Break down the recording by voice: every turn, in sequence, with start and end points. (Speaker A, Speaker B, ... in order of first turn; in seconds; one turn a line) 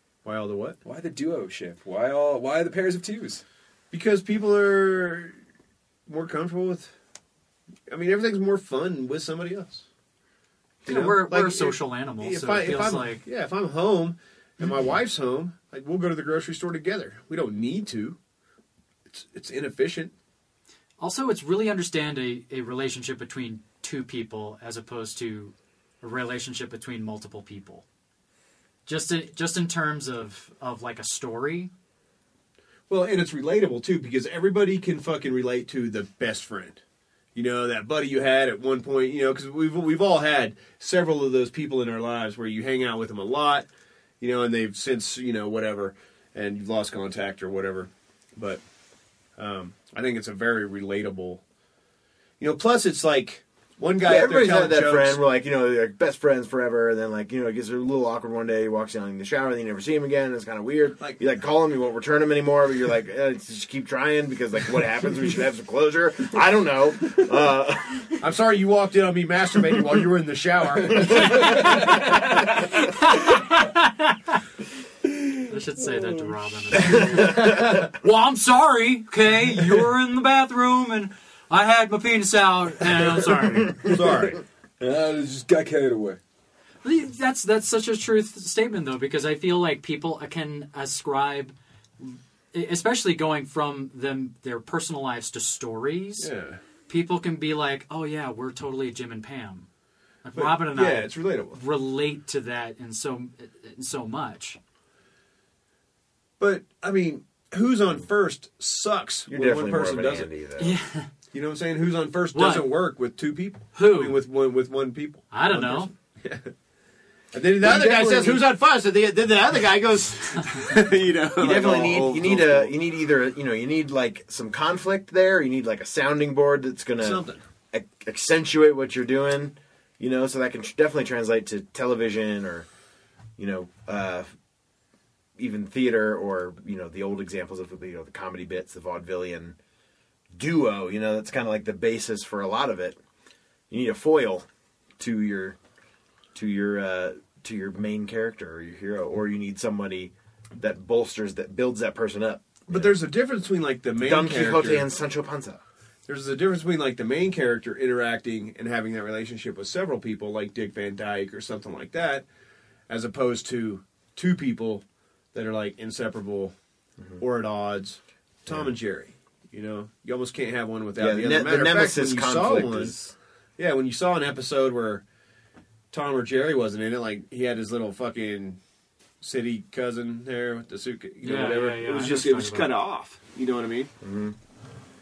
Speaker A: 0.2-0.8
Speaker B: 0.8-3.4
Speaker A: 3.9-5.4
Speaker A: 6.1-6.9
Speaker A: 7.9-9.8
Speaker A: 10.8-18.2
Speaker C: 10.9-13.2
Speaker A: 19.1-20.1
Speaker C: 21.0-27.8
Speaker C: 28.9-31.7
Speaker A: 32.9-36.8
Speaker A: 37.4-43.7
Speaker A: 44.2-48.6
Speaker A: 49.4-51.4
Speaker A: 52.4-55.2
Speaker D: 54.0-68.2
Speaker A: 68.2-71.9
Speaker C: 71.4-74.4
Speaker C: 75.5-83.8
Speaker D: 77.2-77.7
Speaker A: 83.8-84.4
Speaker B: 84.8-86.2
Speaker C: 86.8-96.3
Speaker A: 96.2-96.6
Speaker C: 96.9-99.7
Speaker C: 100.2-104.6
Speaker A: 100.3-101.6
Speaker A: 106.4-110.3
Speaker D: 109.3-110.8
Speaker C: 110.6-111.1
Speaker A: 111.3-116.5
Speaker C: 112.3-112.7
Speaker C: 113.8-114.2
Speaker C: 115.3-115.9
Speaker A: 117.3-122.7
Speaker D: 117.6-118.5
Speaker D: 121.4-132.7
Speaker A: 127.0-127.4
Speaker D: 133.4-134.3
Speaker D: 135.4-139.6
Speaker D: 140.3-143.0
Speaker D: 143.7-144.5
Speaker D: 145.0-145.6
Speaker D: 146.3-153.0
Speaker A: 152.7-154.9
Speaker D: 154.0-155.6
Speaker A: 156.1-162.2
Speaker A: 162.9-166.6
Speaker A: 167.2-172.9
Speaker D: 168.5-168.7
Speaker D: 171.0-173.1
Speaker A: 173.6-175.0
Speaker A: 175.9-178.6
Speaker A: 179.2-183.9
Speaker C: 181.2-182.7
Speaker D: 184.0-184.4